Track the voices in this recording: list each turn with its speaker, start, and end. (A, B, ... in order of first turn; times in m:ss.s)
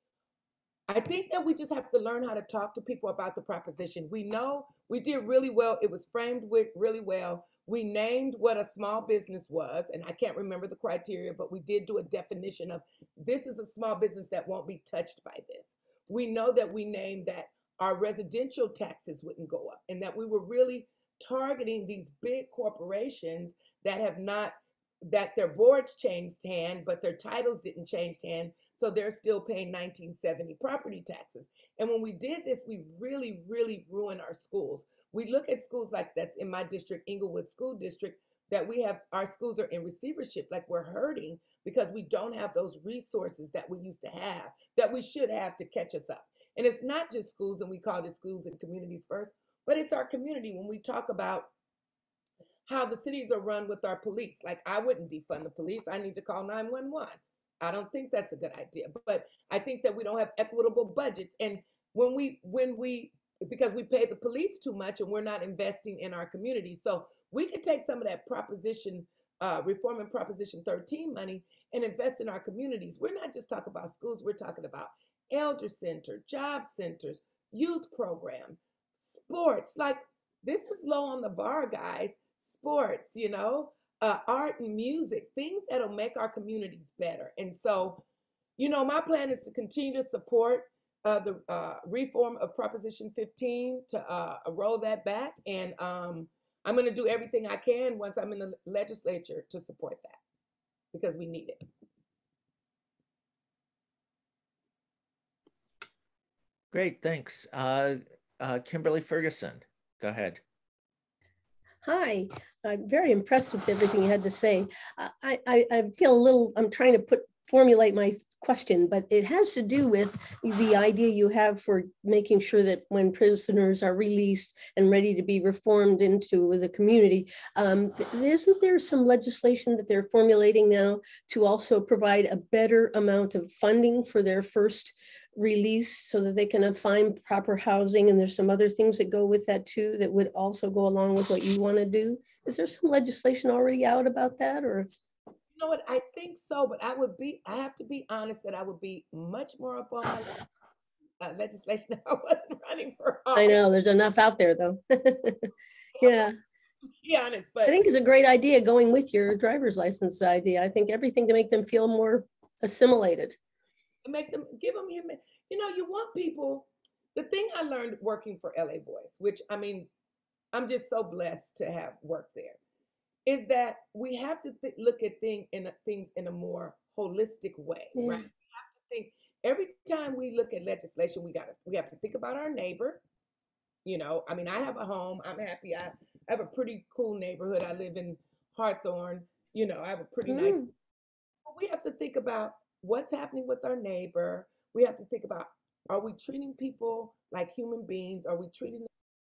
0:00.9-0:51.5 A
0:52.7-1:28.0 A
1:28.6-1:40.2 A
1:40.9-1:41.6 A
1:46.7-1:50.4 B
1:51.8-2:24.9 C
2:25.5-2:30.3 A
2:31.2-2:33.6 A
2:33.4-2:35.5 C
2:36.0-2:36.3 A
2:36.0-2:36.3 C
2:37.0-2:37.8 A
2:37.7-2:43.4 C
2:44.0-2:49.9 A
2:50.5-2:52.6 A
2:53.3-3:03.0 A
2:58.0-2:58.3 C
3:03.8-3:10.6 A
3:10.3-3:10.7 C
3:11.5-3:18.9 A